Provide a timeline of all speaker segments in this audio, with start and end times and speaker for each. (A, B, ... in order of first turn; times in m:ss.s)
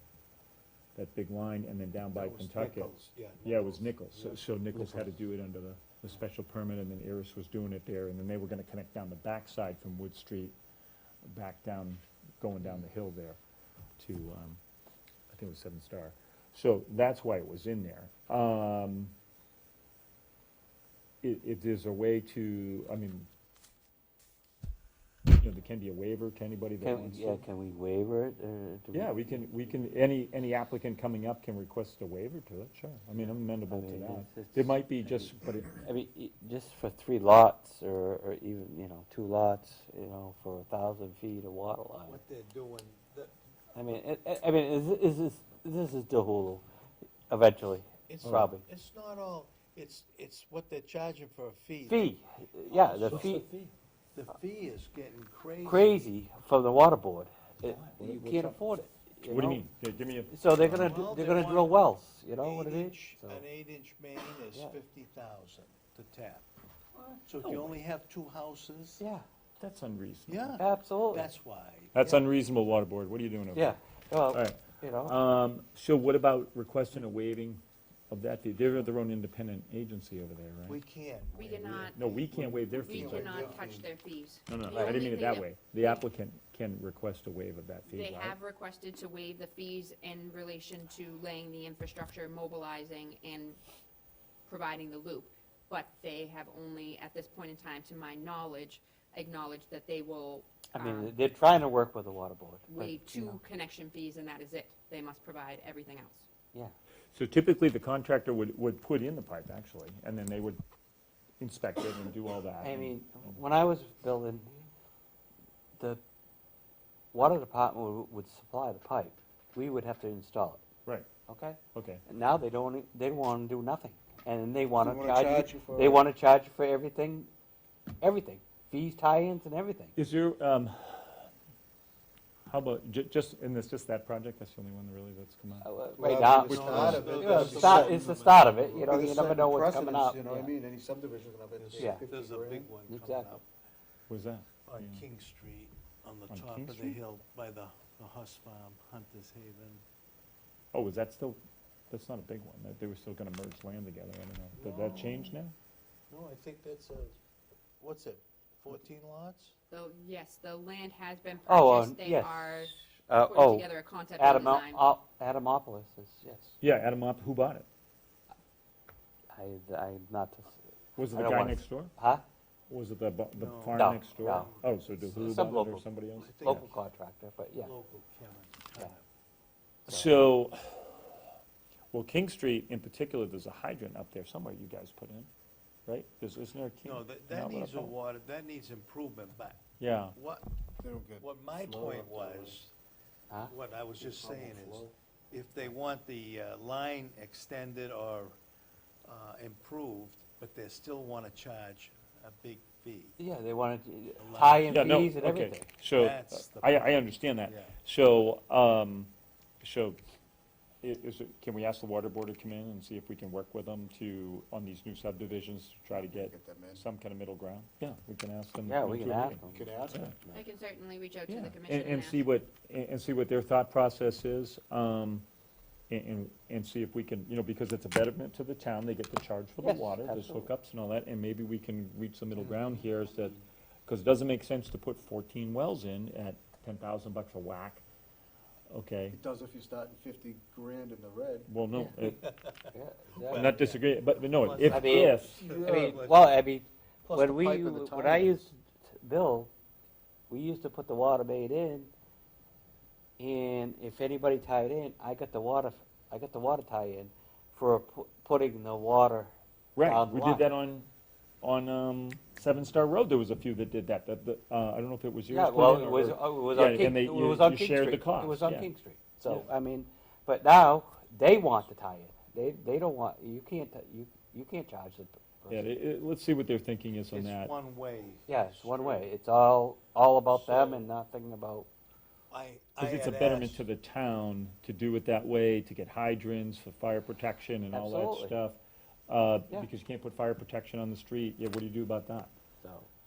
0:01.0-0:02.9 A
0:02.1-0:04.5 B
0:03.4-0:10.6 A
0:04.7-0:05.0 C
0:11.2-0:13.4 A
0:14.0-0:14.6 A
0:15.3-0:19.1 A
0:21.2-0:23.3 A
0:25.4-0:27.4 A
0:26.8-0:29.7 C
0:28.9-0:35.8 A
0:33.7-0:42.2 C
0:42.1-0:43.3 B
0:43.7-0:46.6 C
0:47.3-0:48.6 C
0:48.1-0:53.4 B
0:51.9-0:53.5 C
0:53.0-0:53.7 A
0:54.1-0:56.1 B
0:55.6-0:59.6 C
0:57.6-1:01.0 A
1:00.3-1:03.4 C
1:00.7-1:06.5 B
1:07.0-1:07.7 A
1:07.2-1:09.0 B
1:09.0-1:09.2 C
1:09.6-1:10.6 A
1:10.3-1:12.3 B
1:10.6-1:11.3 C
1:11.9-1:13.8 A
1:13.5-1:15.2 C
1:14.3-1:20.8 A
1:20.7-1:22.0 B
1:21.3-1:22.0 D
1:21.9-1:23.6 A
1:22.3-1:23.9 E
1:22.5-1:26.0 D
1:24.5-1:28.4 A
1:24.7-1:25.1 C
1:27.9-1:33.6 D
1:34.4-1:41.1 D
1:40.7-1:43.4 C
1:42.7-1:46.3 D
1:47.1-1:50.6 A
1:51.4-1:53.4 A
1:52.6-1:54.6 C
1:57.1-2:00.6 C
2:01.3-2:07.3 C
2:01.7-2:02.0 A
2:04.8-2:06.1 E
2:08.0-2:10.0 C
2:10.0-2:11.3 A
2:12.5-2:15.7 A
2:15.6-2:20.5 C
2:16.0-2:18.2 E
2:16.1-2:18.9 B
2:16.7-2:17.0 A
2:18.8-2:22.7 E
2:21.6-2:23.4 B
2:21.8-2:22.0 C
2:22.8-2:23.4 C
2:24.1-2:25.0 A
2:24.6-2:29.8 B
2:26.3-2:27.0 A
2:30.7-2:31.4 A
2:31.9-2:35.6 A
2:34.6-2:35.3 B
2:36.1-2:37.2 B
2:37.8-2:39.6 B
2:39.7-2:45.0 D
2:41.5-2:46.6 C
2:46.6-2:47.7 A
2:49.3-2:50.6 C
2:51.0-2:51.9 A
2:51.1-2:52.2 C
2:52.7-2:56.7 A
2:53.3-2:54.8 B
2:53.7-2:57.7 C
2:56.2-2:56.8 B
2:57.6-2:59.0 B
2:59.9-3:00.1 C
2:59.9-3:01.1 A
3:01.9-3:05.3 A
3:05.9-3:07.9 A
3:06.8-3:10.5 B
3:09.8-3:10.2 A
3:10.8-3:12.6 E
3:11.2-3:12.7 B
3:13.3-3:14.9 C
3:13.5-3:18.4 B
3:19.0-3:23.2 B
3:23.2-3:25.7 C
3:24.2-3:24.9 B
3:24.7-3:30.0 A
3:25.9-3:27.7 B
3:30.8-3:40.2 A
3:35.9-3:36.8 E
3:38.7-3:40.4 C
3:39.5-3:40.1 E
3:40.3-3:42.2 D
3:41.3-3:45.2 A
3:45.9-3:57.8 A
3:49.6-3:50.5 C
3:52.4-3:53.4 C
3:58.7-3:59.2 A
3:59.1-4:01.5 E
4:01.5-4:02.3 A
4:02.0-4:06.3 B
4:02.7-4:03.6 C
4:03.3-4:05.4 A
4:04.6-4:09.5 C
4:05.4-4:06.1 E
4:07.0-4:08.5 E
4:10.3-4:11.9 C
4:13.2-4:20.5 C
4:19.8-4:20.9 A
4:21.4-4:28.7 A
4:25.3-4:35.7 C
4:35.5-4:37.5 A
4:37.1-4:39.1 B
4:38.3-4:41.7 C
4:40.3-4:40.8 B
4:42.3-4:43.6 B
4:42.8-4:52.3 A
4:47.7-4:48.4 C
4:52.6-4:52.9 C